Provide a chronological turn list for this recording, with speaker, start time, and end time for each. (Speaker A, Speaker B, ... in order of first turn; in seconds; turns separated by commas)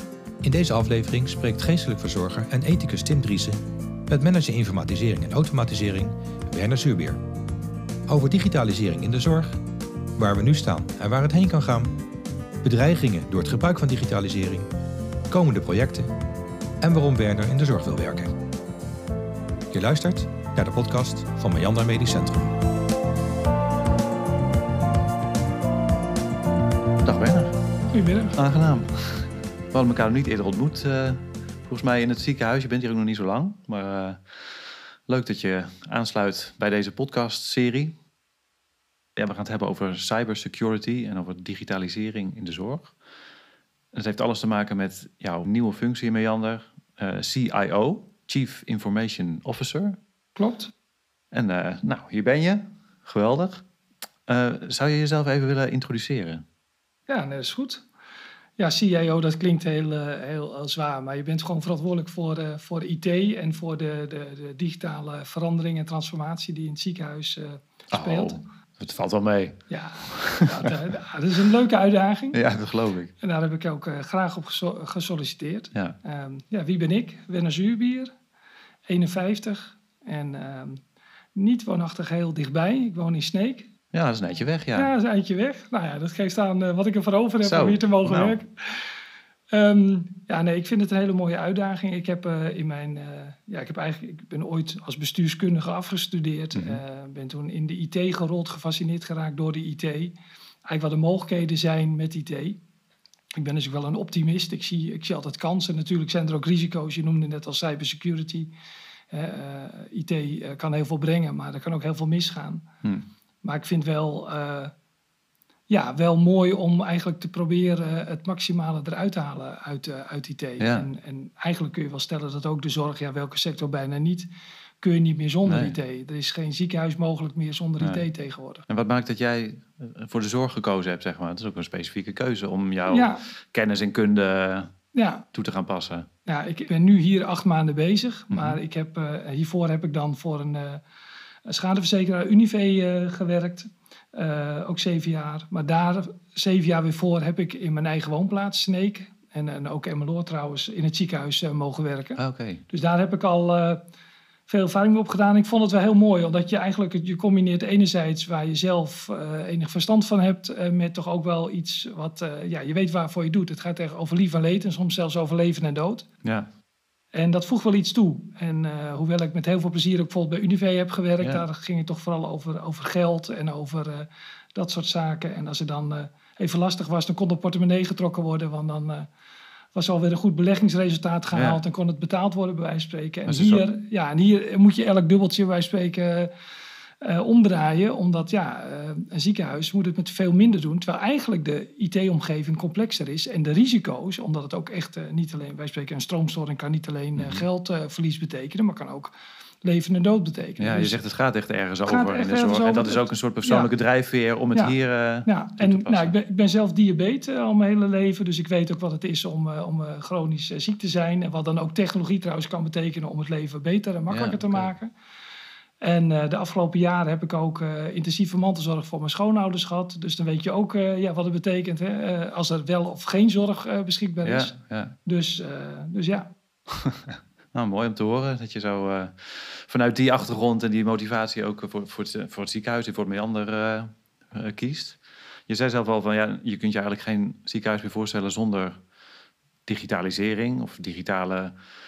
Speaker A: 0.4-7.2, Speaker A: 8.1-9.6, Speaker A: 10.2-11.9, Speaker A: 12.6-14.7, Speaker A: 15.3-16.1, Speaker A: 16.8-18.3, Speaker A: 19.7-22.5, Speaker B: 27.0-27.6, Speaker C: 27.9-28.4, Speaker B: 28.4-37.9, Speaker B: 39.2-42.9, Speaker B: 43.9-50.0, Speaker C: 50.4-50.7, Speaker B: 51.3-53.6, Speaker B: 54.3-56.4, Speaker C: 57.1-57.9, Speaker C: 58.6-68.4, Speaker B: 67.9-70.7, Speaker C: 69.7-72.4, Speaker B: 72.3-73.1, Speaker C: 73.2-78.1, Speaker C: 78.9-80.8, Speaker C: 81.3-83.7, Speaker B: 83.9-84.9, Speaker C: 84.8-88.5, Speaker B: 87.4-88.4, Speaker C: 89.5-100.1, Speaker B: 96.5-96.8, Speaker C: 100.7-102.6, Speaker C: 103.4-108.5, Speaker C: 109.1-112.7, Speaker C: 113.4-114.7, Speaker C: 115.7-124.3, Speaker B: 120.6-120.9, Speaker C: 124.8-128.6, Speaker B: 125.5-125.8, Speaker B: 128.7-134.7, Speaker C: 132.9-133.2, Speaker C: 134.9-135.3, Speaker B: 135.3-136.1, Speaker C: 136.3-140.8, Speaker B: 138.3-138.6, Speaker C: 141.4-153.8, Speaker B: 152.2-152.6, Speaker C: 154.5-166.1, Speaker C: 167.1-179.1, Speaker C: 179.7-186.3, Speaker B: 181.3-181.6, Speaker B: 183.3-183.7, Speaker C: 187.0-201.0, Speaker B: 197.2-197.4, Speaker B: 200.6-206.2, Speaker C: 201.8-203.7, Speaker C: 204.5-214.9, Speaker B: 214.1-214.7, Speaker C: 215.8-226.3, Speaker B: 224.2-224.9, Speaker B: 227.1-238.8, Speaker B: 239.7-241.6